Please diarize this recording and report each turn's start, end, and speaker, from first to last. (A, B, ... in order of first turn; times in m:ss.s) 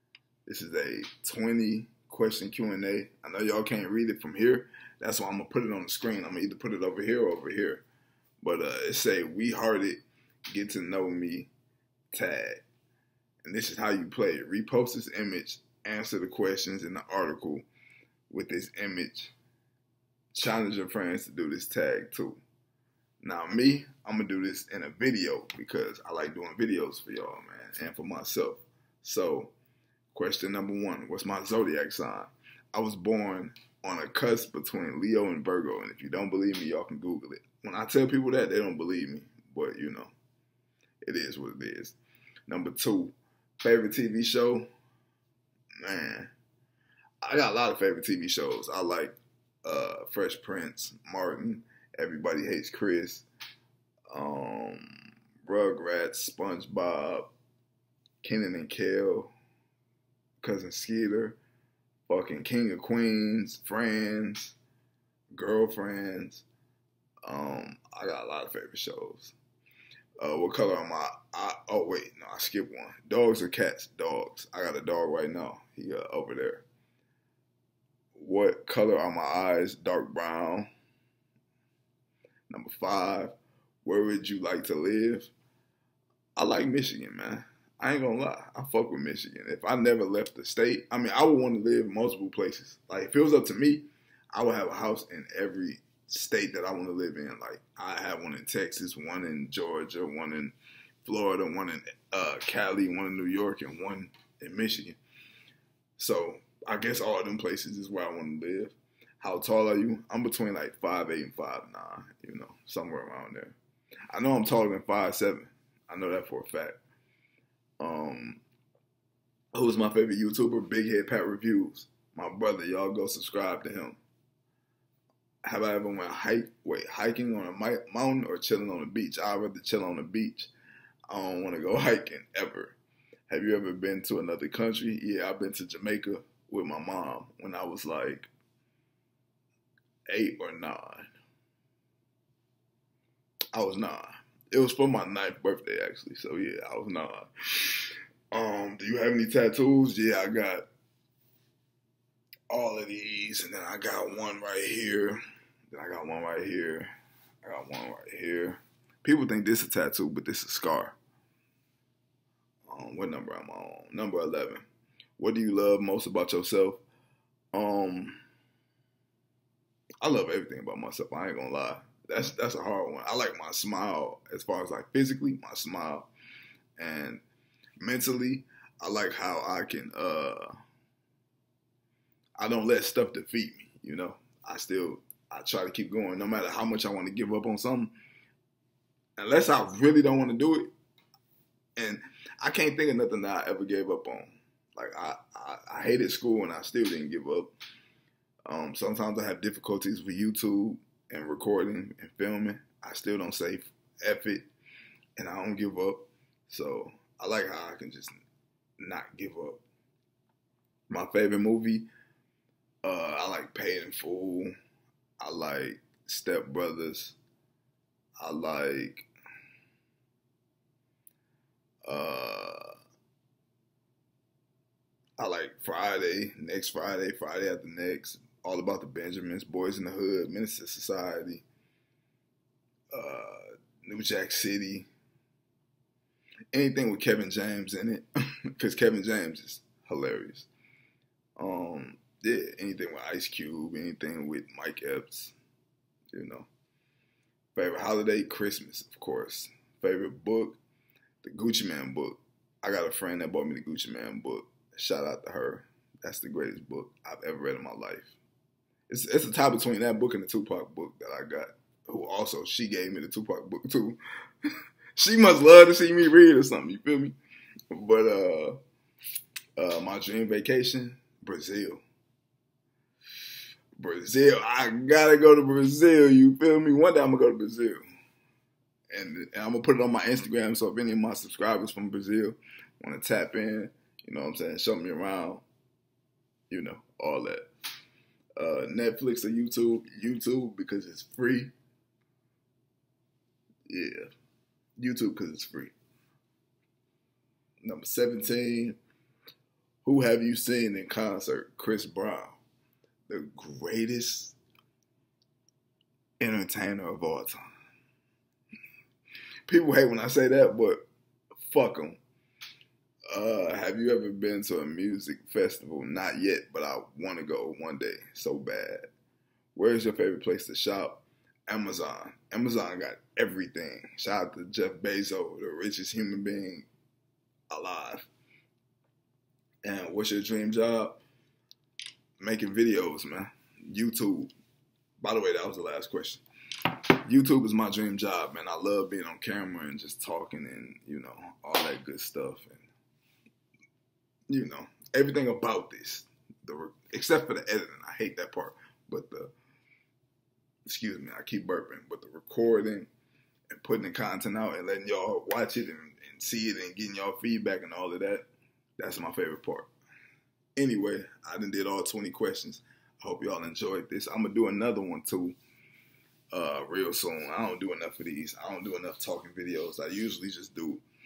0:00.5-0:07.8 A
0:08.4-0:10.0 A
0:10.5-0:11.5 A
0:12.1-0:12.6 A
0:13.4-0:17.7 A
0:18.3-0:19.3 A
0:20.3-0:22.4 A
0:23.2-0:29.5 A
0:30.1-0:40.1 A
0:41.0-0:42.0 A
0:42.5-0:44.7 A
0:45.8-0:46.3 A
0:47.2-0:53.3 A
0:54.1-0:57.3 A
0:58.2-0:59.3 A
1:00.4-1:01.4 A
1:02.1-1:04.6 A
1:05.3-1:06.4 A
1:07.2-1:09.4 A
1:10.2-1:16.6 A
1:18.2-1:20.7 A
1:22.5-1:23.3 A
1:23.8-1:25.3 A
1:26.4-1:45.0 A
1:46.0-1:53.6 A
1:54.1-1:56.8 A
1:57.8-1:58.4 A
1:59.5-2:04.0 A
2:05.4-2:10.5 A
2:11.1-2:12.8 A
2:13.3-2:18.3 A
2:20.1-2:21.1 A
2:23.5-2:30.7 A
2:32.5-2:36.9 A
2:37.4-2:41.0 A
2:42.7-2:44.6 A
2:45.2-2:46.8 A
2:47.5-2:48.2 A
2:50.0-2:56.1 A
2:56.8-2:57.2 A
2:57.8-3:00.5 A
3:02.4-3:07.9 A
3:09.2-3:10.7 A
3:11.8-3:17.5 A
3:18.5-3:24.5 A
3:25.2-3:28.2 A
3:28.8-3:29.6 A
3:30.9-3:31.9 A
3:32.8-3:34.5 A
3:35.2-3:37.2 A
3:38.2-3:39.1 A
3:41.8-3:42.7 A
3:45.2-3:51.4 A
3:52.9-3:54.9 A
3:56.5-4:00.5 A
4:01.4-4:05.4 A
4:06.1-4:06.5 A
4:07.6-4:10.6 A
4:11.2-4:18.1 A
4:18.9-4:24.0 A
4:25.0-4:27.2 A
4:27.7-4:28.6 A
4:29.6-4:31.8 A
4:33.8-4:37.8 A
4:38.9-4:45.4 A
4:46.5-4:47.5 A
4:48.4-4:51.5 A
4:53.7-4:54.1 A
4:54.8-4:55.7 A
4:57.6-4:58.8 A
4:59.8-5:02.4 A
5:03.1-5:04.4 A
5:06.2-5:07.4 A
5:09.5-5:10.8 A
5:11.4-5:12.0 A
5:13.1-5:18.9 A
5:19.6-5:26.7 A
5:27.5-5:28.1 A
5:29.6-5:31.0 A
5:32.2-5:34.3 A
5:35.0-5:36.2 A
5:37.0-5:42.7 A
5:44.3-5:49.3 A
5:50.7-5:52.9 A
5:53.5-5:58.3 A
5:58.8-5:59.7 A
6:00.6-6:05.4 A
6:06.3-6:10.8 A